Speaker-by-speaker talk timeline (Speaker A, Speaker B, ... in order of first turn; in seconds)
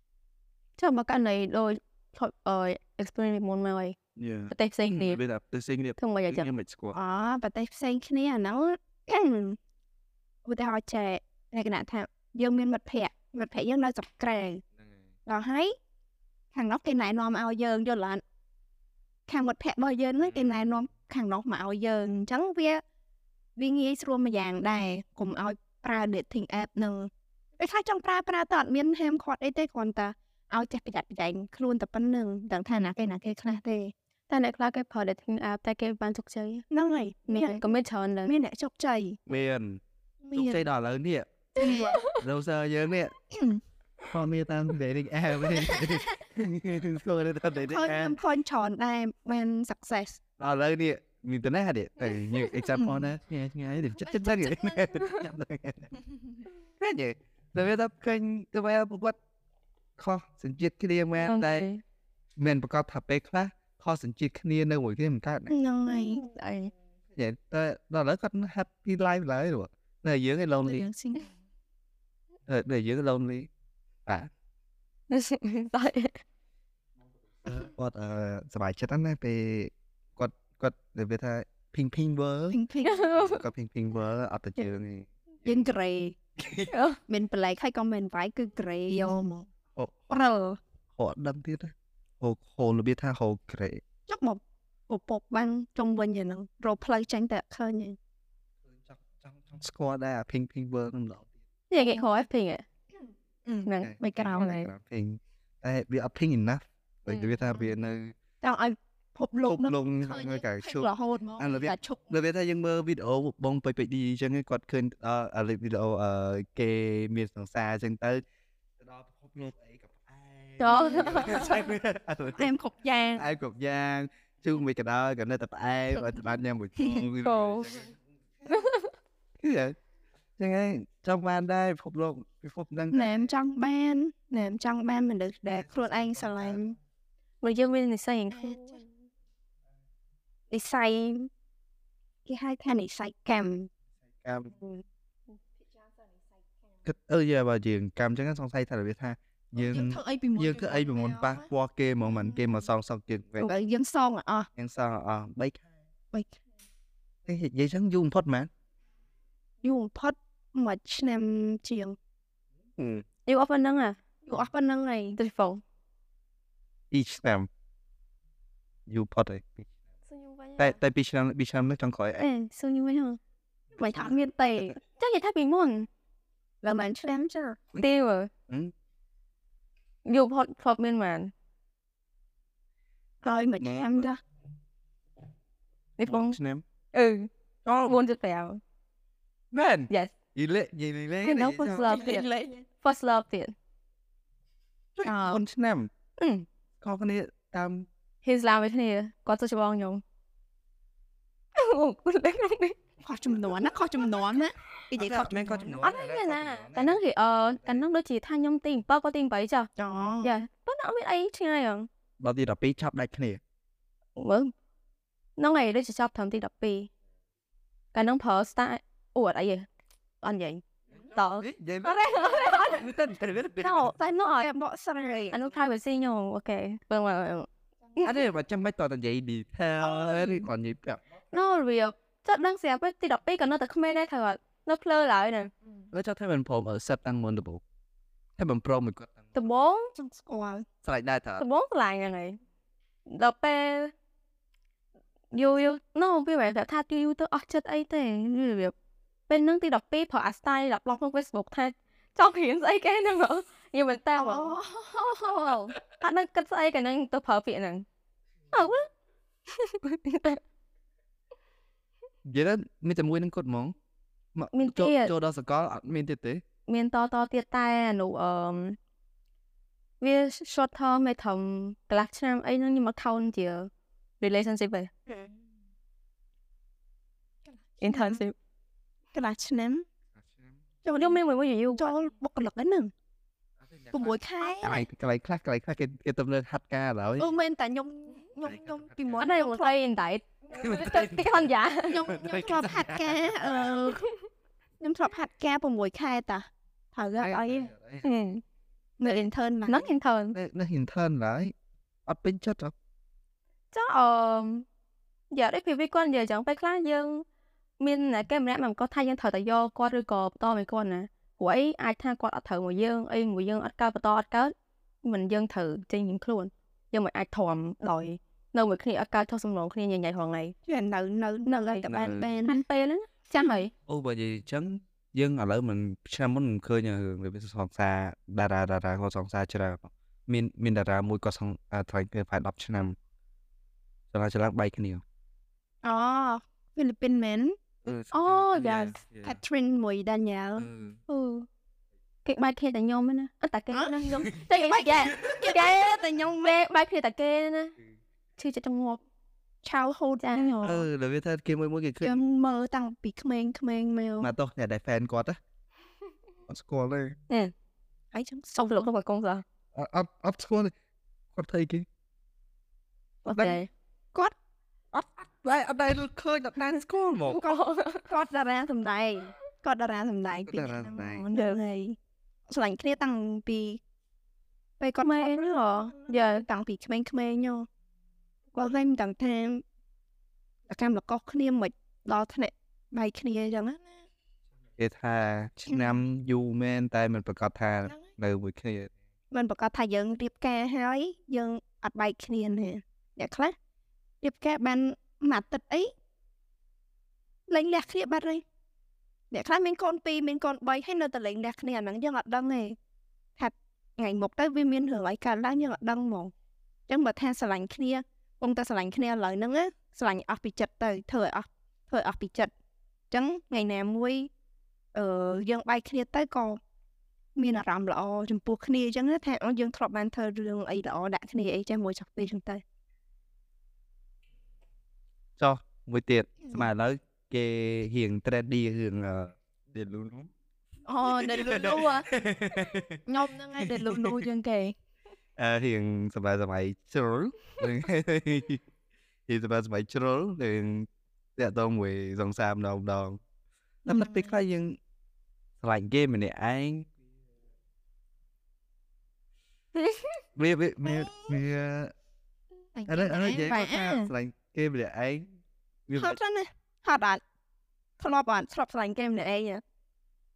Speaker A: 0.8-4.0, 4.5-5.2, 6.0-6.5, 34.3-36.6, 37.3-38.3, 41.6-42.2, 52.1-52.5, 54.9-55.2, 61.2-61.8, 65.9-66.7, 75.1-76.2, 82.8-83.4, 86.7-87.0, 101.7-102.6, 103.6-104.7, 107.1-107.4, 120.6-121.5, 127.2-127.9, 128.5-128.9, 137.4-138.8, 163.2-164.0, 165.2-165.6, 170.1-170.8, 172.2-173.2, 174.9-175.9, 177.8-178.3, 180.1-181.3, 186.0-186.4, 186.9-187.3, 187.8-188.6, 189.9-190.1, 191.2-192.3, 192.8-193.5, 196.2-196.5, 198.2-200.0, 201.6-202.8, 205.8-209.7, 210.2-211.9, 214.2-214.5, 215.4-216.9, 217.9-219.7, 220.2-222.9, 223.6-224.5, 225.3-228.2, 231.3-235.5, 239.3-239.9, 241.4-242.4, 243.1-243.9, 245.3-248.7, 249.3-257.9, 258.5-258.9, 259.5-260.4, 264.5-265.1, 266.7-268.8, 270.0-274.9, 277.8-278.3, 281.0-281.9, 289.2-292.1, 298.0-298.4, 299.7-300.4, 303.7-304.6, 305.3-307.2, 307.8-320.5, 321.4-323.7, 338.1-339.0, 341.1-341.4, 342.2-347.7, 348.4-349.0, 350.2-350.8, 358.5-359.4, 363.2-363.7, 367.2-368.1, 375.0-376.4, 431.0-432.0, 449.8-450.1
Speaker B: 4.2-7.0, 14.8-15.1, 20.2-20.6, 39.3-39.8, 40.3-41.3, 42.0-43.1, 44.1-48.2, 50.4-55.9, 56.8-59.1, 60.0-61.7, 62.4-65.5, 67.1-70.8, 72.5-73.5, 77.4-82.6, 83.1-85.7, 86.4-86.7, 89.7-90.1, 91.0-93.8, 98.7-101.3, 103.8-108.1, 109.5-118.2, 118.8-122.5, 123.1-128.5, 129.4-129.7, 130.4-133.3, 135.5-136.6, 144.2-144.5, 146.8-153.5, 154.6-155.6, 157.2-158.5, 162.8-163.0, 166.9-167.5, 168.9-169.7, 170.6-172.2, 183.6-184.1, 186.0-186.6, 187.6-188.0, 189.5-191.9, 194.9-195.9, 196.8-197.9, 204.9-207.0, 207.5-207.8, 212.2-213.4, 221.4-223.9, 228.0-231.0, 235.9-237.6, 238.4-239.4, 240.8-241.4, 262.2-263.7, 264.3-266.4, 280.1-280.6, 283.6-287.3, 288.4-289.3, 290.5-291.4, 292.0-293.8, 297.2-298.1, 300.3-301.5, 302.1-302.7, 321.9-322.3, 323.9-332.9, 334.1-335.0, 337.8-339.4, 340.6-341.0, 350.6-352.2, 354.2-355.4, 356.5-357.1, 359.7-360.7, 361.3-361.9, 363.3-363.6, 365.4-367.4, 370.5-371.2, 384.8-388.9, 425.4-430.3, 431.1-433.0, 433.6-434.2, 435.4-438.6, 439.3-443.2, 443.8-444.8, 445.6-446.9, 450.3-451.9, 452.9-455.2, 455.9-456.2
Speaker C: 6.9-9.6, 10.4-14.6, 15.2-15.7, 16.5-18.2, 19.3-22.8, 23.6-33.9, 36.7-37.6, 38.2-39.2, 40.2-40.6, 41.5-42.0, 43.3-43.6, 47.6-50.2, 54.1-54.7, 65.5-66.2, 70.6-71.3, 82.5-83.1, 85.4-86.2, 87.1-89.5, 90.1-90.6, 94.1-98.0, 101.8-102.1, 103.5-104.5, 108.4-112.0, 121.0-121.6, 122.3-123.3, 126.8-127.0, 132.9-136.7, 138.3-138.6, 140.5-141.3, 142.2-143.7, 149.5-151.5, 152.1-152.5, 153.4-154.5, 159.6-161.9, 164.2-165.2, 173.8-174.8, 176.6-177.6, 183.2-184.2, 191.8-192.6, 195.0-195.4, 203.0-205.7, 209.8-210.3, 224.4-225.4, 239.9-240.7, 254.2-255.0, 275.1-275.4, 277.8-278.2, 279.1-279.8, 280.8-281.2, 281.7-282.9, 283.9-284.8, 287.2-289.7, 291.9-294.0, 294.8-297.7, 299.0-299.9, 320.6-322.6, 335.8-337.6, 339.2-340.7, 343.7-346.6, 349.6-350.8, 352.0-354.3, 358.1-358.5, 364.9-365.3, 367.4-372.0, 372.5-373.8, 374.8-377.7, 378.5-379.6, 380.7-383.9, 389.3-393.5, 394.2-395.9, 397.5-398.4, 399.3-402.8, 403.4-406.3, 406.9-412.5, 413.1-414.3, 414.9-416.6, 417.4-422.6, 430.9-432.1, 433.1-434.7, 443.9-444.3, 450.8-451.4, 452.7-454.1, 455.9-457.2, 458.0-459.6